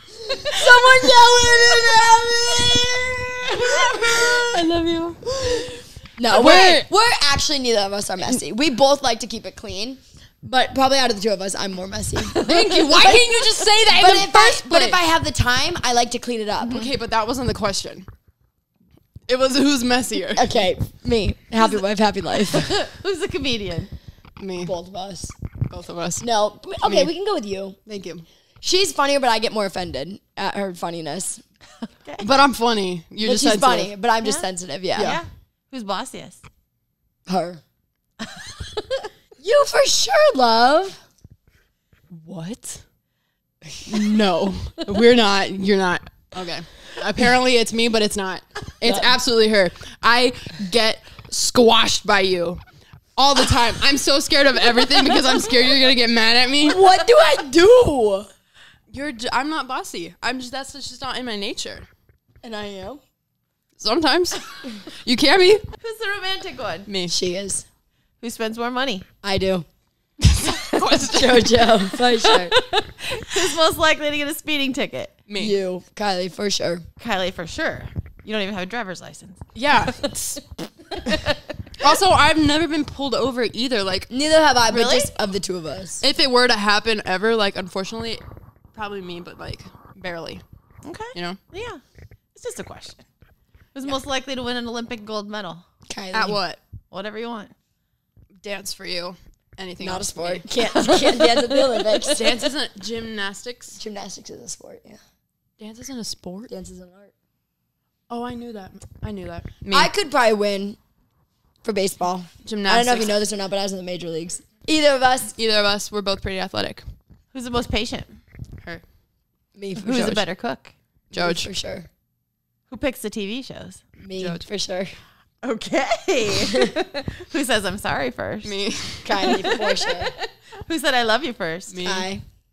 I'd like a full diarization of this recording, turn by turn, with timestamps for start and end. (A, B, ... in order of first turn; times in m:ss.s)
0:00.3-0:04.6 A
0:01.1-0:01.9 B
0:03.6-0:06.9 B
0:06.2-0:13.3 A
0:12.3-0:15.0 B
0:13.9-0:16.9 A
0:16.6-0:18.0 B
0:19.3-0:20.5 B
0:20.4-0:22.8 A
0:22.5-0:23.9 C
0:24.4-0:24.7 B
0:24.6-0:25.3 A
0:25.7-0:26.2 B
0:26.2-0:27.8 A
0:26.8-0:27.1 B
0:27.8-0:28.3 B
0:28.6-0:31.4 A
0:32.0-0:32.3 C
0:32.2-0:33.9 B
0:33.2-0:35.2 A
0:34.2-0:36.4 C
0:34.9-0:35.2 B
0:37.3-0:37.6 A
0:39.4-0:41.0 A
0:42.1-0:42.8 B
0:43.8-0:52.6 B
0:48.8-0:49.1 A
0:53.2-0:56.8 B
0:56.6-0:58.3 A
0:58.9-1:01.9 B
1:02.4-1:03.0 A
1:03.8-1:05.6 B
1:05.8-1:06.9 C
1:06.8-1:07.1 B
1:07.1-1:07.6 A
1:08.2-1:09.1 C
1:09.2-1:09.6 A
1:10.2-1:12.5 B
1:10.8-1:12.6 A
1:12.6-1:15.1 C
1:15.3-1:15.6 B
1:15.4-1:16.8 A
1:17.0-1:19.4 C
1:19.6-1:20.5 B
1:21.0-1:21.4 C
1:21.8-1:24.1 B
1:24.1-1:26.0 A
1:24.7-1:25.1 C
1:26.0-1:28.2 B
1:28.7-1:30.4 B
1:30.8-1:31.8 C
1:31.1-1:31.4 B
1:32.3-1:33.1 C
1:33.7-1:35.6 C
1:35.9-1:36.4 A
1:36.1-1:36.6 B
1:36.9-1:37.5 C
1:38.4-1:40.5 B
1:39.8-1:42.5 A
1:42.1-1:43.8 B
1:43.8-1:45.0 A
1:45.6-1:46.5 B
1:46.5-1:47.1 A
1:48.1-1:49.9 B
1:49.7-1:50.8 A
1:51.6-1:55.3 A
1:52.4-1:53.2 B
1:55.4-1:56.8 B
1:57.3-1:58.2 C
1:59.6-2:00.2 A
1:59.8-2:00.7 C
1:59.9-2:00.2 B
2:01.1-2:01.9 A
2:01.1-2:01.5 B
2:02.7-2:03.8 C
2:04.0-2:05.0 A
2:04.2-2:04.4 B
2:05.4-2:08.6 C
2:06.5-2:06.7 A
2:08.4-2:09.6 B
2:09.0-2:10.1 A
2:09.2-2:11.8 C
2:11.7-2:12.1 B
2:11.8-2:12.2 A